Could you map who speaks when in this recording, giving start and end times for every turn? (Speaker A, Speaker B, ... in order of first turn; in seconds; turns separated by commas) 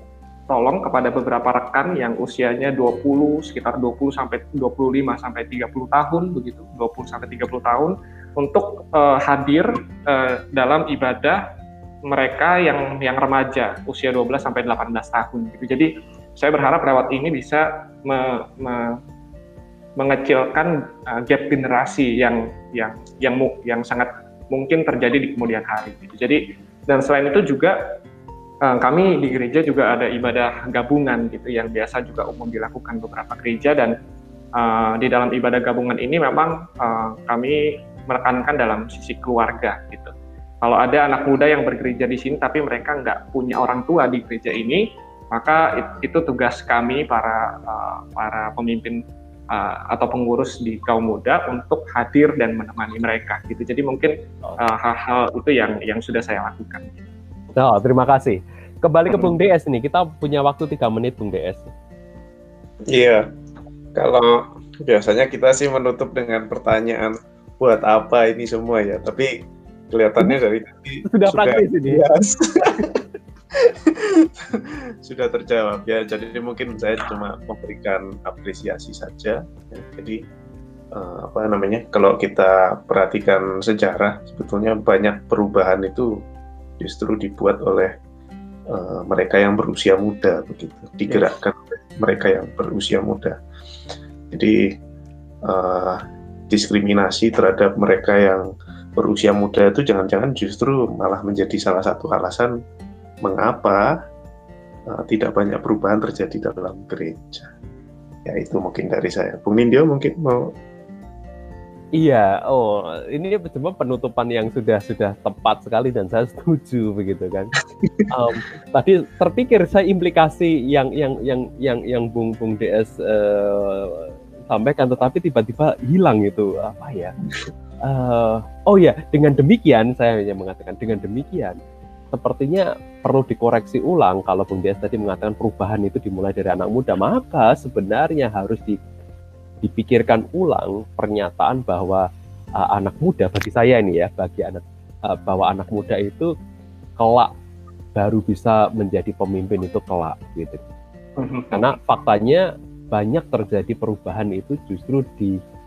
Speaker A: 0.5-11.4, Speaker A: 12.1-19.0, Speaker A: 20.0-27.8, Speaker A: 28.6-33.9, Speaker A: 34.6-57.0, Speaker B: 57.6-61.7, Speaker C: 62.9-63.3, Speaker C: 64.0-69.3, Speaker C: 69.9-73.0, Speaker B: 71.1-72.0, Speaker C: 73.5-80.2, Speaker C: 80.9-86.1, Speaker C: 86.8-87.9, Speaker C: 88.7-93.4, Speaker C: 94.3-94.7, Speaker C: 95.5-98.5, Speaker C: 99.0-102.5, Speaker C: 103.2-104.0, Speaker C: 104.9-107.5, Speaker C: 108.3-110.5, Speaker B: 112.0-117.5, Speaker B: 118.1-127.2, Speaker B: 127.8-131.6, Speaker B: 132.1-138.8, Speaker B: 139.6-142.1, Speaker B: 142.6-146.3, Speaker B: 147.0-147.3, Speaker B: 148.0-150.6, Speaker A: 151.2-151.7, Speaker B: 151.5-155.4